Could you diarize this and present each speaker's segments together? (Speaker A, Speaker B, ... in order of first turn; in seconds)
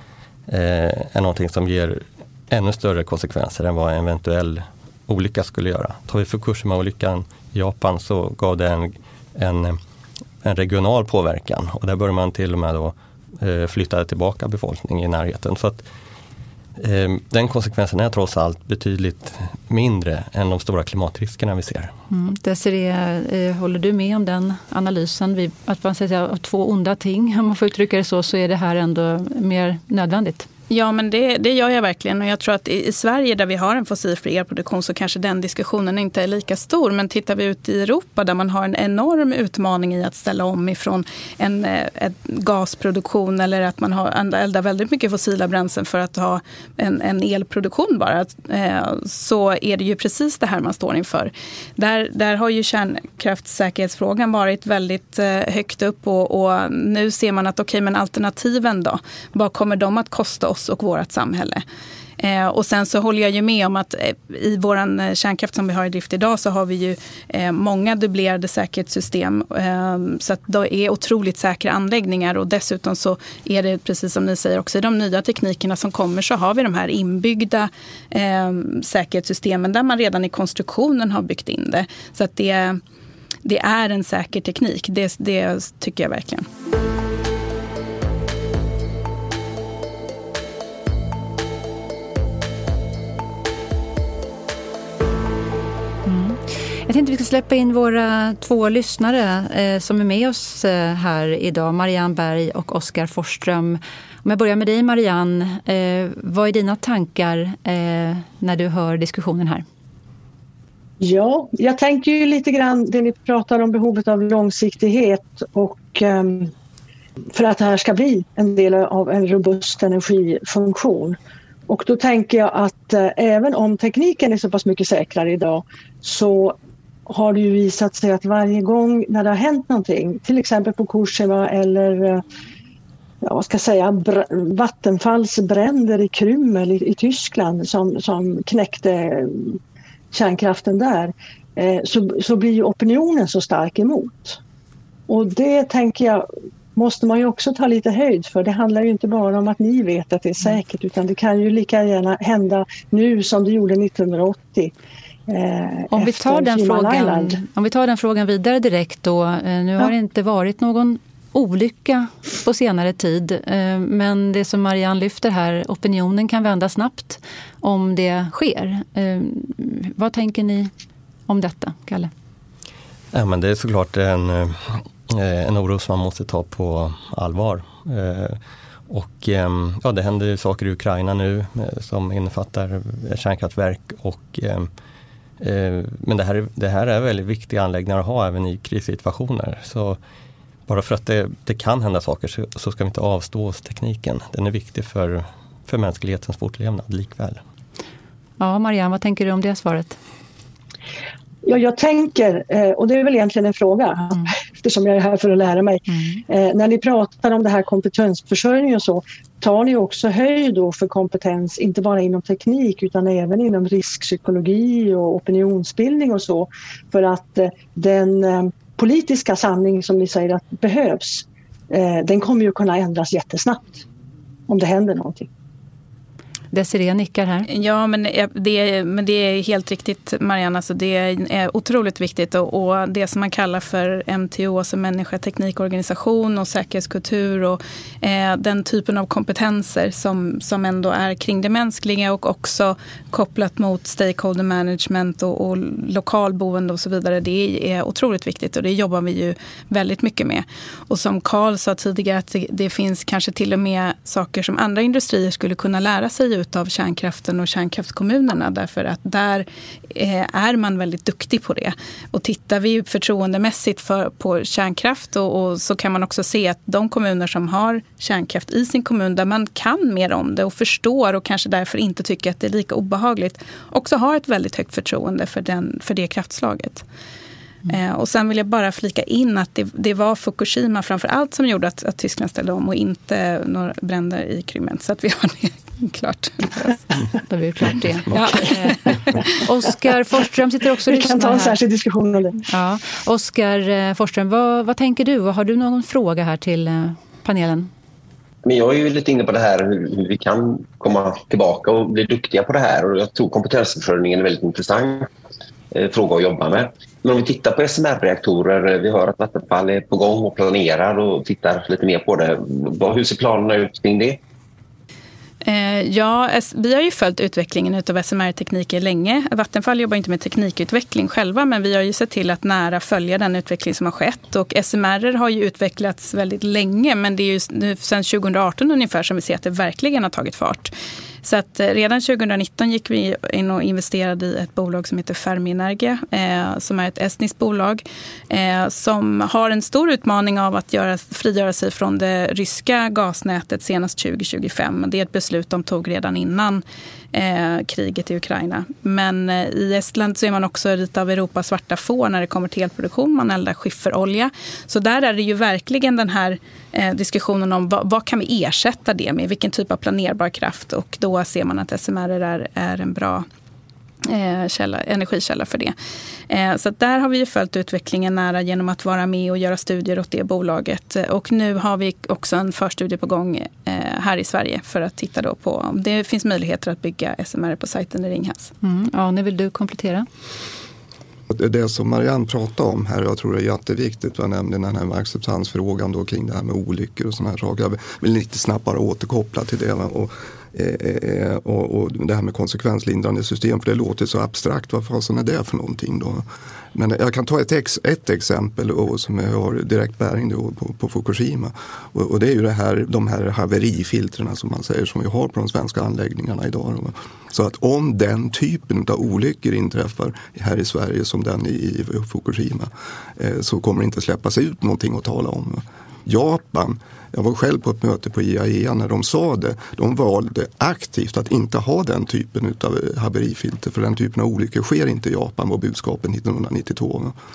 Speaker A: 0.5-9.8, 10.4-15.8, 16.8-21.9, 173.1-184.7, 185.4-190.0, 190.7-197.4
Speaker B: 22.1-30.5, 96.0-109.6, 155.9-170.7, 171.3-172.1, 198.4-200.0, 205.9-206.2, 226.5-227.4, 287.3-291.6, 292.4-297.7, 378.6-380.1
Speaker C: 30.7-61.6, 62.2-82.8, 83.4-86.5, 227.5-276.8, 277.7-286.8, 315.4-330.7, 331.2-363.2, 364.0-365.7, 366.3-378.5
Speaker D: 111.0-116.5, 117.3-121.2, 121.7-126.6, 127.1-132.2, 133.2-139.6, 140.1-144.4, 145.1-154.7, 155.3-157.4, 201.4-223.8, 224.5-225.3, 290.9-292.4
Speaker E: 298.4-305.1, 305.7-314.2
Speaker F: 381.3-427.1